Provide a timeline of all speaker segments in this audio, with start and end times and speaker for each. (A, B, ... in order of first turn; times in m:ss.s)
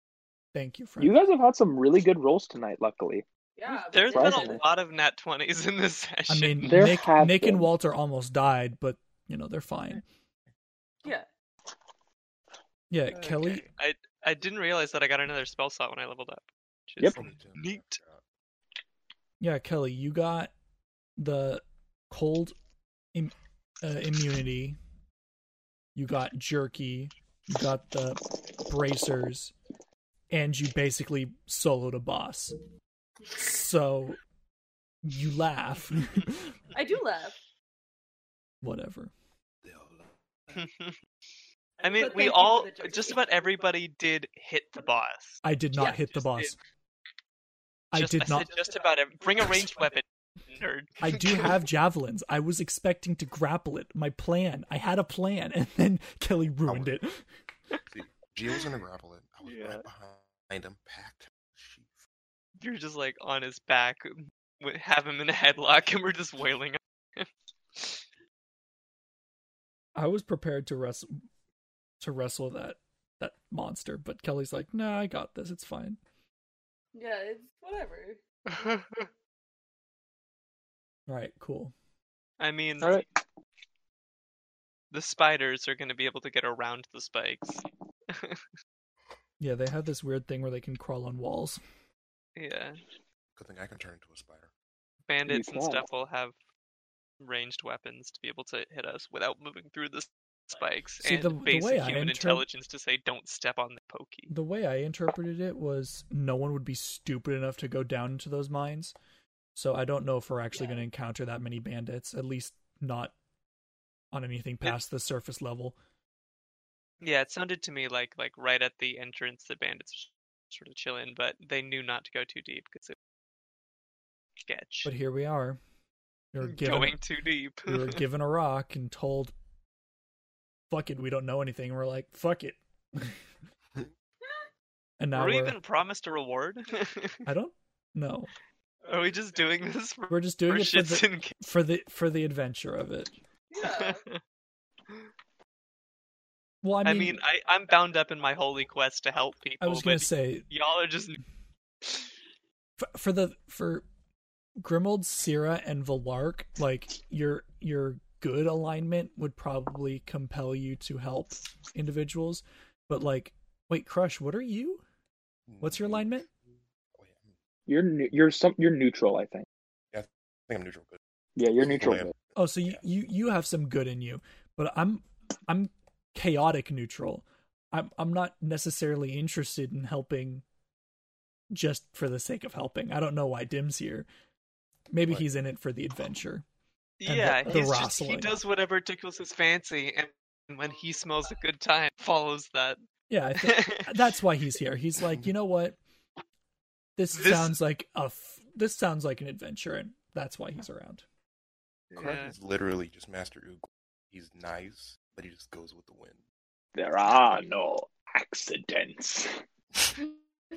0:00.5-0:01.2 A
0:01.0-0:03.2 B
0:03.6-0:04.6 C
0:03.7-0:06.8 D
0:04.1-0:04.6 B
0:06.3-0:10.0 A
0:06.6-0:07.7 B
0:12.9-0:13.6 A
0:13.2-0:18.0 D
0:17.1-0:18.2 E
0:19.4-0:20.5 A
0:21.2-0:22.6 A
0:23.1-0:24.8 A
0:26.0-0:29.5 A
0:30.3-0:32.6 A
0:33.4-0:34.2 A
0:35.0-0:36.5 A
0:36.7-0:37.4 C
0:38.6-0:39.1 A
0:40.5-0:41.0 D
0:41.8-0:46.5 D
0:41.9-0:43.2 C
0:45.4-0:46.6 A
0:47.9-0:48.5 A
0:48.0-0:51.6 D
0:51.0-0:57.2 A
0:56.7-0:56.9 E
0:57.9-1:02.0 E
0:59.4-0:59.8 D
1:02.6-1:08.0 D
1:10.0-1:11.1 A
1:12.0-1:16.0 A
1:16.9-1:18.2 C
1:18.5-1:19.1 D
1:21.1-1:21.7 A
1:22.4-1:23.0 D
1:22.8-1:23.1 B
1:24.9-1:28.4 D
1:29.4-1:31.6 A
1:32.4-1:32.8 D
1:33.4-1:34.5 E
1:35.1-1:36.3 D
1:35.3-1:35.8 B
1:37.2-1:44.3 D
1:41.0-1:42.4 A
1:44.3-1:48.9 A
1:49.6-1:53.1 A
1:50.6-1:50.8 C
1:54.1-1:55.8 A
1:57.0-2:03.0 D
2:04.4-2:04.9 D
2:04.8-2:05.6 A
2:06.3-2:07.0 A
2:06.4-2:08.0 D
2:07.7-2:09.3 A
2:10.7-2:13.2 A
2:15.0-2:15.6 A
2:15.1-2:17.2 D
2:17.3-2:18.3 A
2:18.8-2:21.3 D
2:20.1-2:23.1 A
2:23.5-2:24.0 C
2:23.6-2:24.2 D
2:26.6-2:27.2 A
2:26.8-2:31.2 D
2:29.6-2:30.5 A
2:31.8-2:32.1 D
2:32.8-2:33.9 A
2:34.6-2:44.8 A
2:45.5-2:46.3 E
2:45.6-2:46.3 A
2:47.0-2:47.3 E
2:47.7-2:49.5 B
2:49.9-2:51.0 E
2:51.4-2:52.1 B
2:51.6-2:52.8 E
2:52.4-3:00.4 A
3:01.5-3:04.1 A
3:04.9-3:06.4 A
3:07.0-3:12.8 D
3:07.1-3:08.4 A
3:13.1-3:15.8 A
3:13.4-3:13.9 D
3:17.0-3:21.0 A
3:17.1-3:17.5 D
3:21.9-3:26.2 E
3:22.0-3:22.3 D
3:26.8-3:29.4 B